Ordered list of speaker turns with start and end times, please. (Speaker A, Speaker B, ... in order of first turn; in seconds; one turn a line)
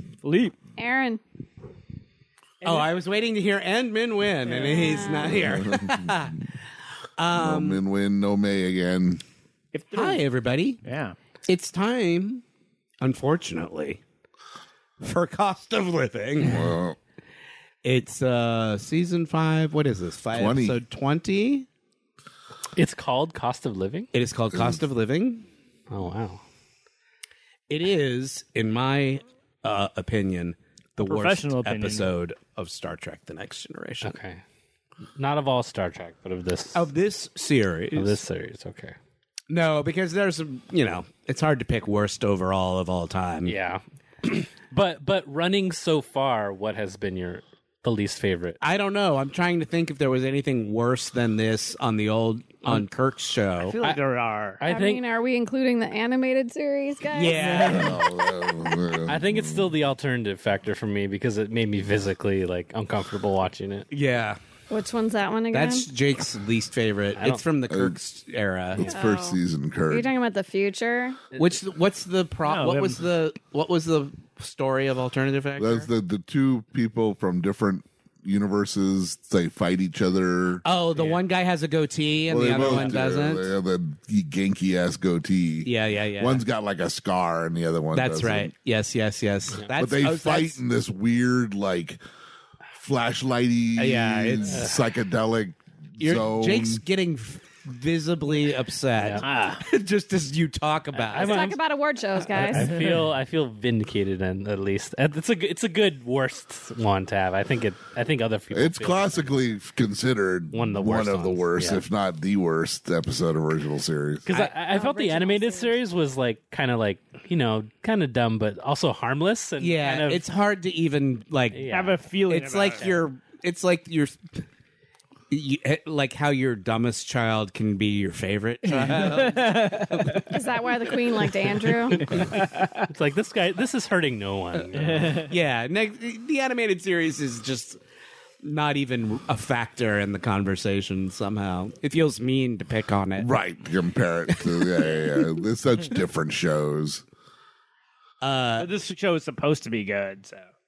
Speaker A: 0.2-0.6
Speaker B: 0.8-1.2
Speaker C: 2.6-6.5
Speaker B: 4.5-5.4
Speaker D: 5.3-6.1
Speaker C: 7.2-7.8
Speaker D: 7.3-9.2
Speaker A: 9.7-10.2
Speaker C: 9.9-10.8
Speaker A: 10.8-11.2
Speaker C: 11.5-12.4
Speaker C: 13.0-14.0
Speaker C: 15.0-16.7
Speaker D: 16.4-17.0
Speaker C: 17.8-21.7
Speaker D: 20.3-20.8
Speaker E: 22.8-24.1
Speaker C: 24.1-25.5
Speaker D: 24.5-24.8
Speaker E: 25.9-26.4
Speaker C: 27.7-34.2
Speaker A: 31.0-32.1
Speaker E: 34.0-34.4
Speaker E: 35.2-36.9
Speaker C: 36.7-38.2
Speaker E: 38.0-39.0
Speaker C: 39.5-43.5
Speaker E: 43.5-48.6
Speaker C: 48.6-53.8
Speaker A: 53.6-54.6
Speaker E: 54.6-55.0
Speaker B: 54.6-57.7
Speaker C: 57.1-58.0
Speaker A: 57.4-58.0
Speaker D: 57.6-59.8
Speaker E: 59.1-63.9
Speaker C: 63.9-64.4
Speaker B: 64.7-65.9
Speaker C: 65.5-69.0
Speaker E: 67.2-67.4
Speaker D: 67.7-68.0
Speaker D: 68.7-70.1
Speaker B: 68.8-71.2
Speaker C: 71.4-75.9
Speaker A: 72.5-73.0
Speaker D: 75.6-80.6
Speaker C: 80.7-83.5
Speaker D: 82.3-88.5
Speaker E: 82.6-83.0
Speaker C: 85.6-86.4
Speaker C: 87.9-90.6
Speaker D: 89.7-92.0
Speaker D: 92.8-96.8
Speaker C: 93.8-94.7
Speaker C: 96.0-101.5
Speaker E: 99.0-99.2
Speaker A: 99.2-99.7
Speaker E: 101.0-101.6
Speaker B: 101.2-102.9
Speaker E: 102.2-109.4
Speaker A: 102.6-103.0
Speaker D: 108.5-114.3
Speaker E: 110.5-111.8
Speaker E: 114.3-120.2
Speaker B: 114.6-115.8
Speaker C: 119.6-121.6
Speaker E: 121.5-122.0
Speaker A: 121.7-123.0
Speaker C: 122.3-124.4
Speaker C: 125.3-130.4
Speaker A: 128.7-130.3
Speaker B: 130.3-132.2
Speaker A: 131.1-131.4
Speaker E: 132.0-135.3
Speaker A: 132.0-132.9
Speaker A: 134.8-135.3
Speaker C: 135.2-137.8
Speaker C: 138.4-143.3
Speaker D: 143.2-147.0
Speaker C: 144.3-145.0
Speaker C: 148.2-148.7
Speaker A: 148.6-150.5